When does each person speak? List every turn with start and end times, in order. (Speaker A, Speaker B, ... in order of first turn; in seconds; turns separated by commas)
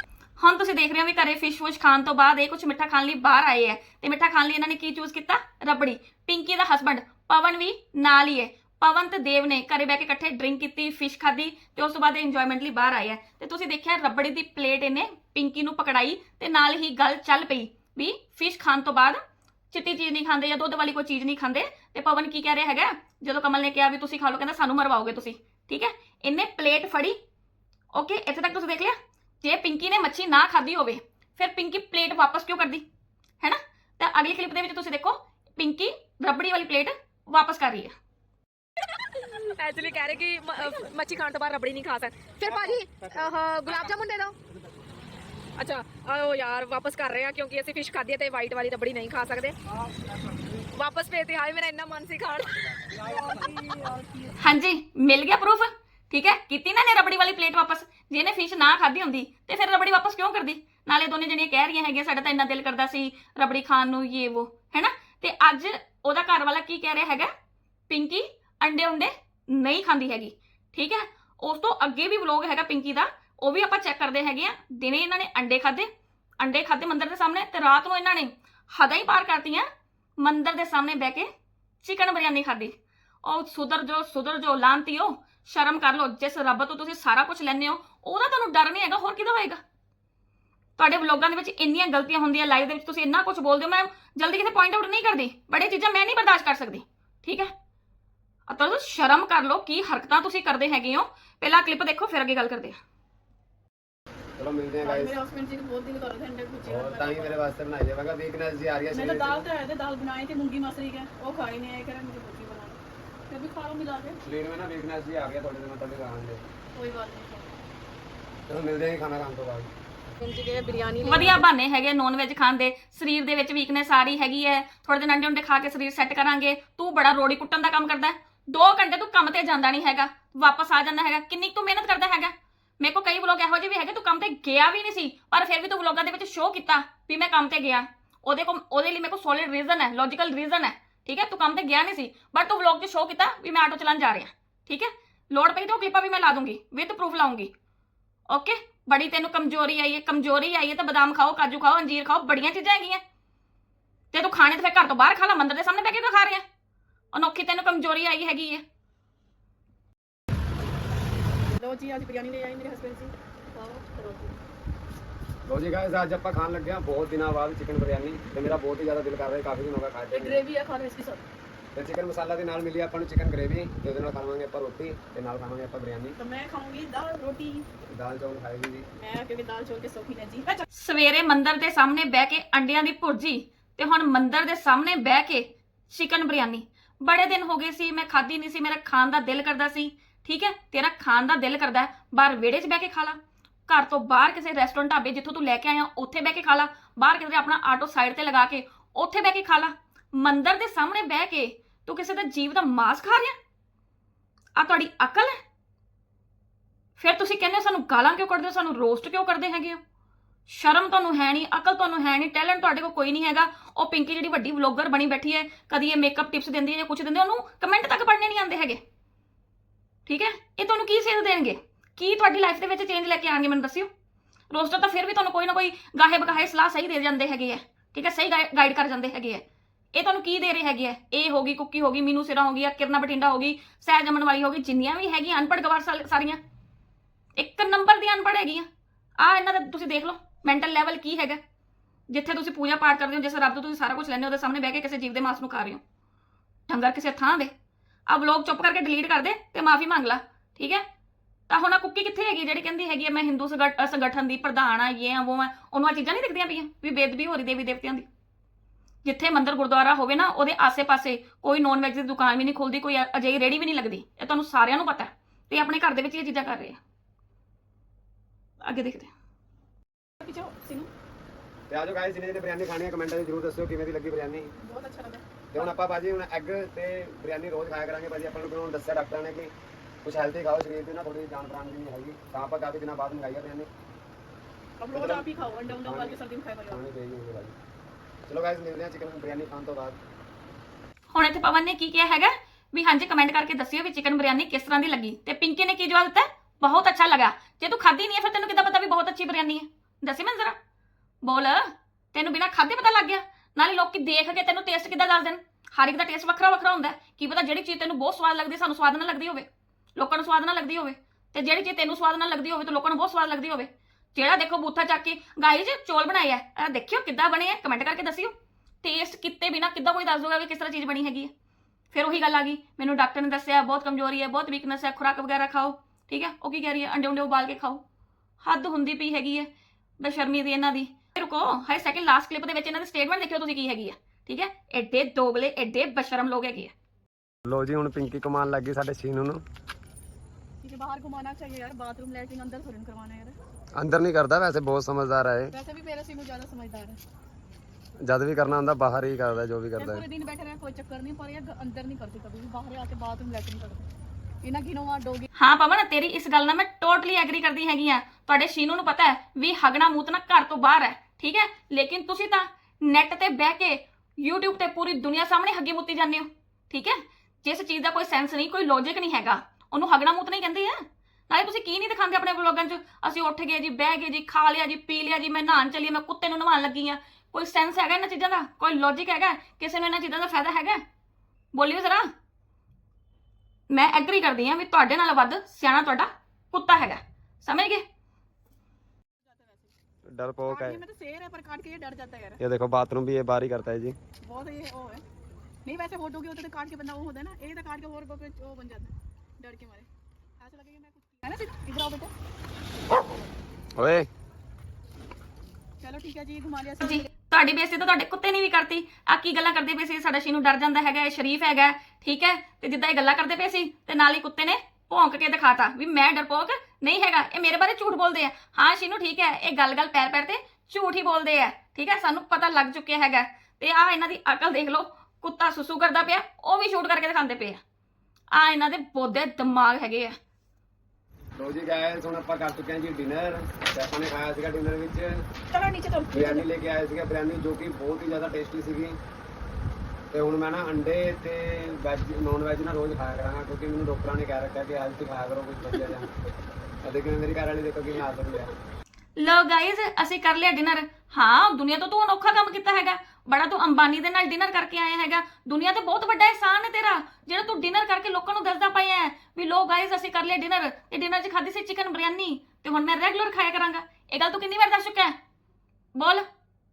Speaker A: 0.4-27.2, Speaker A: 27.9-32.8, Speaker A: 33.4-37.9, Speaker B: 39.1-44.4, Speaker B: 45.6-49.5, Speaker B: 50.7-52.6, Speaker C: 52.9-54.4, Speaker A: 54.4-67.3, Speaker A: 67.9-75.9, Speaker A: 76.4-79.7, Speaker A: 80.2-81.3, Speaker A: 81.8-89.6, Speaker A: 90.8-97.5, Speaker A: 98.5-102.8, Speaker D: 104.4-105.2, Speaker C: 104.8-107.5, Speaker D: 106.6-109.4, Speaker C: 108.9-112.8, Speaker C: 113.3-114.2, Speaker D: 114.2-116.4, Speaker C: 116.8-117.5, Speaker D: 118.5-119.7, Speaker C: 120.2-121.4, Speaker A: 121.0-147.5, Speaker A: 148.3-153.0, Speaker A: 154.1-156.4, Speaker A: 157.1-158.6, Speaker C: 161.5-164.4, Speaker D: 165.4-170.4, Speaker C: 170.1-171.2, Speaker D: 171.7-176.2, Speaker C: 176.2-177.7, Speaker D: 177.9-178.9, Speaker C: 178.9-180.7, Speaker A: 180.7-203.4, Speaker A: 204.6-205.4, Speaker A: 207.0-209.8, Speaker A: 210.5-218.8, Speaker A: 220.1-223.9, Speaker A: 224.5-229.4, Speaker A: 229.9-236.4, Speaker A: 237.4-238.7, Speaker A: 239.2-241.4, Speaker A: 242.1-245.8, Speaker A: 246.7-247.5, Speaker A: 248.1-250.8, Speaker A: 251.5-258.1, Speaker A: 259.0-266.8, Speaker A: 268.6-269.1, Speaker C: 270.2-270.9, Speaker D: 271.7-274.5, Speaker C: 274.6-275.2, Speaker D: 275.5-283.7, Speaker C: 284.8-286.8, Speaker D: 284.9-286.2, Speaker D: 286.7-287.6, Speaker D: 288.3-290.0, Speaker A: 291.1-300.6, Speaker A: 301.2-321.3, Speaker A: 321.9-327.8, Speaker A: 328.4-336.7, Speaker D: 337.4-339.4, Speaker C: 340.6-343.4, Speaker D: 343.8-345.5, Speaker C: 345.5-347.0, Speaker D: 348.0-350.0, Speaker C: 349.8-353.9, Speaker C: 354.4-355.3, Speaker A: 355.4-380.8, Speaker A: 381.5-382.1, Speaker A: 383.7-387.8, Speaker C: 389.2-389.7, Speaker D: 390.1-390.8, Speaker C: 390.5-392.4, Speaker D: 392.4-394.0, Speaker C: 394.2-395.0, Speaker C: 395.6-399.9, Speaker C: 400.4-402.1, Speaker D: 403.8-404.1, Speaker C: 405.8-407.1, Speaker A: 406.8-427.6, Speaker A: 428.3-430.2, Speaker D: 431.4-435.2, Speaker C: 435.5-436.4, Speaker D: 436.1-439.0, Speaker D: 440.1-446.1, Speaker D: 446.8-448.5, Speaker A: 449.2-465.1, Speaker A: 465.9-466.2